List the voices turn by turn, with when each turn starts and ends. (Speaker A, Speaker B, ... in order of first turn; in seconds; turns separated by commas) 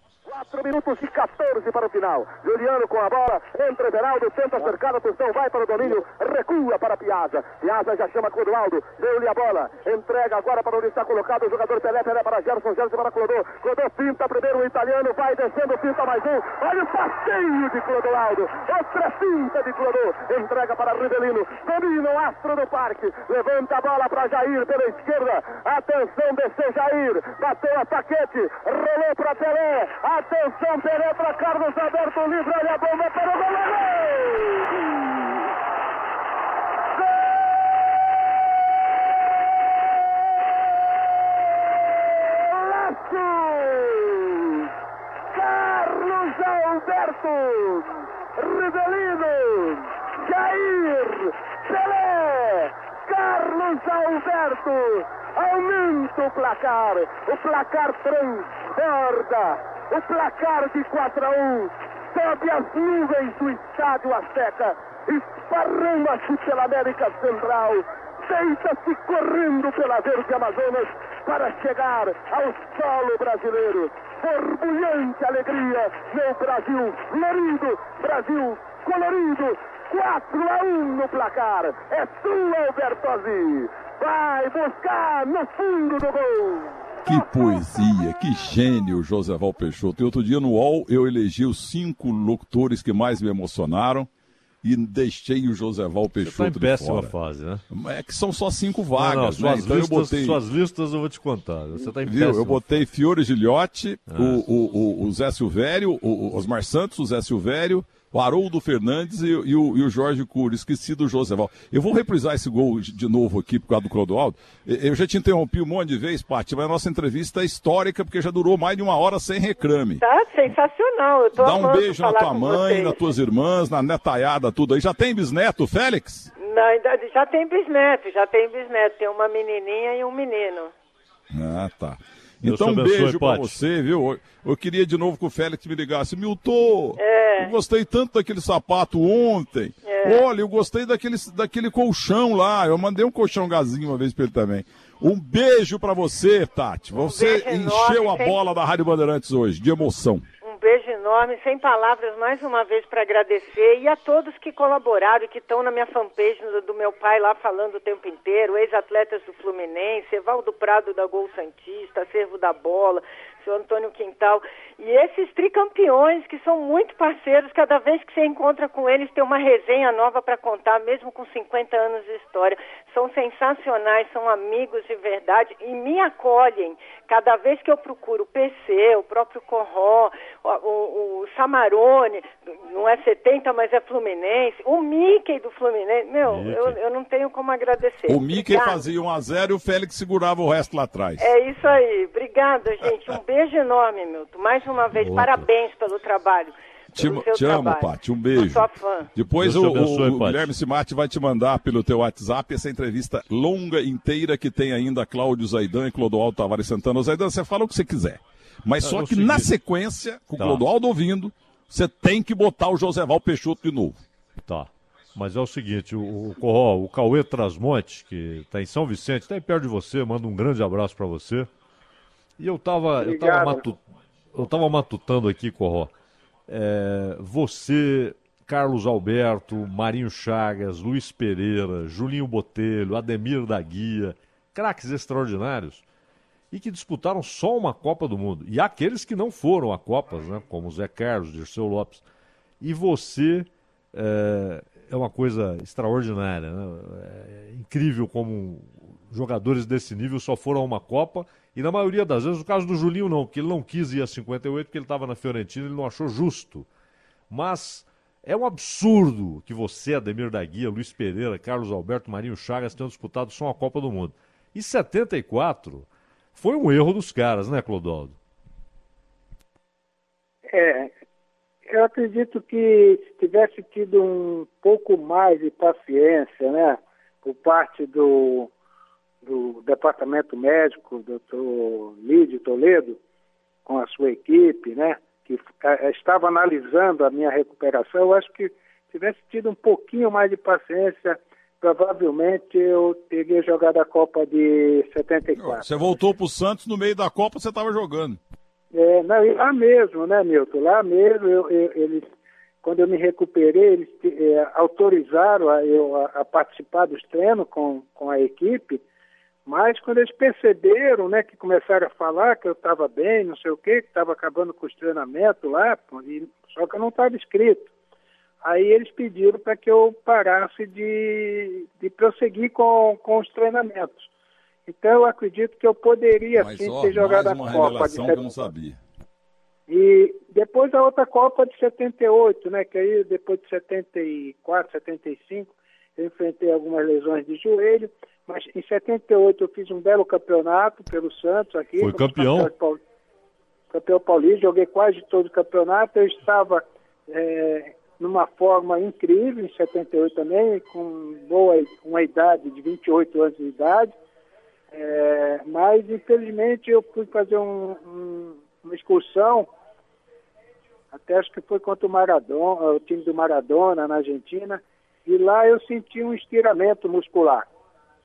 Speaker A: 0.2-35.1, Speaker A: 42.3-44.6, Speaker A: 45.3-87.2, Speaker B: 87.0-94.1, Speaker B: 94.6-97.1, Speaker C: 96.2-97.6, Speaker B: 97.7-100.4, Speaker C: 99.0-102.7, Speaker B: 102.0-120.0, Speaker C: 104.1-104.4, Speaker D: 120.0-123.0, Speaker B: 121.3-126.3, Speaker D: 126.4-130.7, Speaker B: 131.3-150.2, Speaker C: 132.4-133.6, Speaker D: 137.0-137.5, Speaker D: 139.8-140.2, Speaker D: 147.0-148.4, Speaker D: 150.4-188.8, Speaker C: 186.2-186.8, Speaker B: 188.1-191.3, Speaker D: 191.2-199.1, Speaker C: 194.9-195.4, Speaker B: 196.9-214.0, Speaker C: 199.4-200.5, Speaker C: 208.8-209.5, Speaker C: 210.4-210.6, Speaker C: 214.4-221.5, Speaker C: 222.4-223.8, Speaker E: 223.0-223.6, Speaker C: 224.3-225.9, Speaker C: 226.5-235.8, Speaker C: 236.5-242.0, Speaker C: 242.6-256.7, Speaker C: 257.3-268.1, Speaker E: 270.5-270.9, Speaker E: 271.7-278.5, Speaker E: 279.2-283.0, Speaker E: 283.6-295.6, Speaker B: 295.4-298.2, Speaker E: 298.7-302.1, Speaker E: 302.6-308.8, Speaker E: 309.4-317.7, Speaker E: 318.4-324.1, Speaker E: 324.7-328.5, Speaker B: 326.3-328.8, Speaker E: 329.7-342.8, Speaker C: 341.8-342.5, Speaker E: 343.7-353.9, Speaker E: 354.7-359.5, Speaker E: 360.9-367.5